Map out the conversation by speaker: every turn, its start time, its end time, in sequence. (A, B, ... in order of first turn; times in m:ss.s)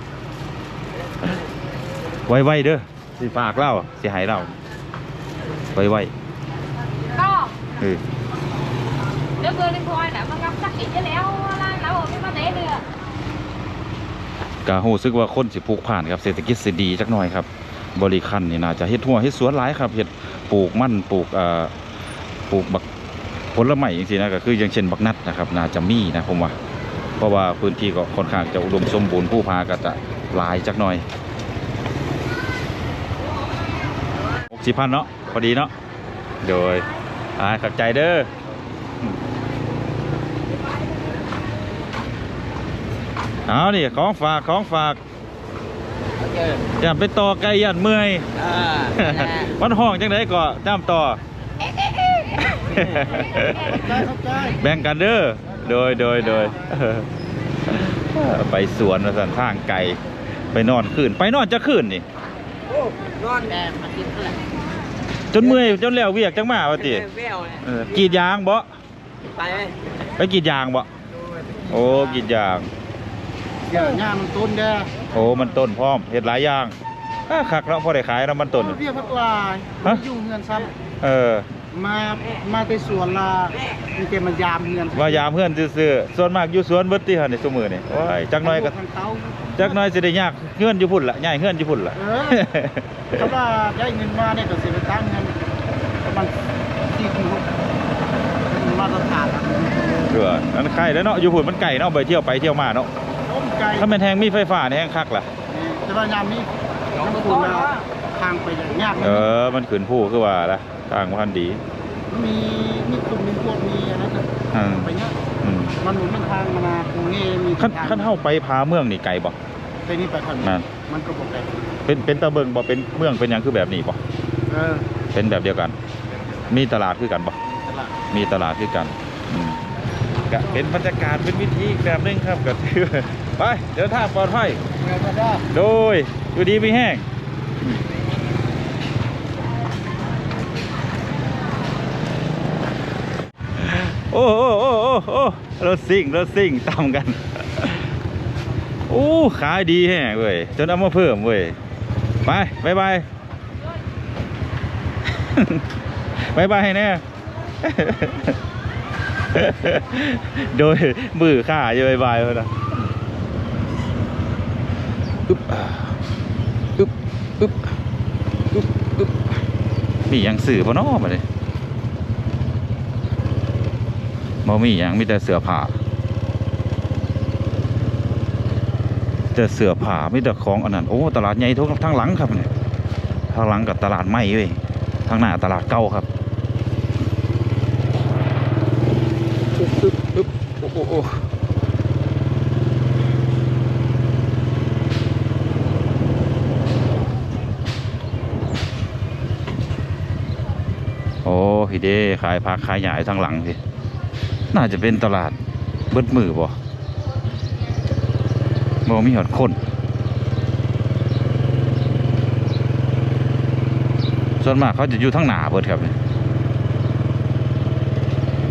0:02.3-0:04.5 A
0:05.7-0:06.1 A
0:07.1-0:07.6 B
0:07.8-0:08.0 A
0:09.4-0:12.8 B
0:14.6-0:21.7 A
0:22.5-0:22.8 A
0:23.5-0:26.6 A
0:27.2-0:31.0 A
0:34.5-0:35.7 A
0:36.4-0:38.3 A
0:43.4-0:45.0 A
0:46.8-0:48.3 A
0:48.8-0:51.2 A
0:52.6-0:54.0 A
0:53.6-0:54.6 C
0:54.6-0:57.1 A
0:57.7-1:00.0 A
1:00.5-1:02.0 A
1:03.2-1:04.5 C
1:05.3-1:07.1 A
1:07.6-1:08.7 A
1:10.2-1:10.9 A
1:11.5-1:11.8 C
1:11.7-1:12.7 A
1:13.7-1:14.9 C
1:15.1-1:16.8 A
1:17.3-1:18.8 A
1:18.6-1:20.7 C
1:21.0-1:21.5 A
1:21.7-1:25.3 C
1:24.9-1:28.7 A
1:28.4-1:29.8 C
1:29.6-1:33.3 A
1:31.9-1:32.5 C
1:33.1-1:35.4 C
1:36.0-1:37.5 C
1:38.4-1:40.2 C
1:40.1-1:42.9 A
1:43.2-1:43.9 C
1:43.8-1:45.3 A
1:45.5-1:49.3 C
1:49.0-1:51.6 A
1:52.1-1:54.2 C
1:54.5-1:55.8 A
1:54.8-1:55.2 C
1:55.8-1:58.1 C
1:57.6-1:59.4 A
1:59.8-2:01.7 C
2:01.8-2:04.0 A
2:04.5-2:04.8 C
2:05.1-2:05.8 A
2:06.5-2:07.4 A
2:07.5-2:07.9 C
2:08.1-2:09.6 A
2:10.3-2:14.6 A
2:14.8-2:15.4 C
2:15.5-2:17.0 A
2:23.6-2:27.8 A
2:28.9-2:31.6 A
2:32.2-2:33.0 A
2:35.3-2:35.6 A
2:36.2-2:37.0 A
2:37.6-2:38.4 A
2:39.3-2:42.5 A
2:45.3-2:46.0 A
2:46.8-2:47.7 A
2:48.5-2:49.3 A
2:50.1-2:51.2 A
2:54.4-2:55.7 A
2:59.3-3:02.5 A
3:03.3-3:06.0 A
3:09.6-3:11.2 A
3:21.2-3:23.6 A
3:24.5-3:25.4 A
3:25.9-3:26.6 A
3:28.8-3:29.6 A
3:34.4-3:35.9 A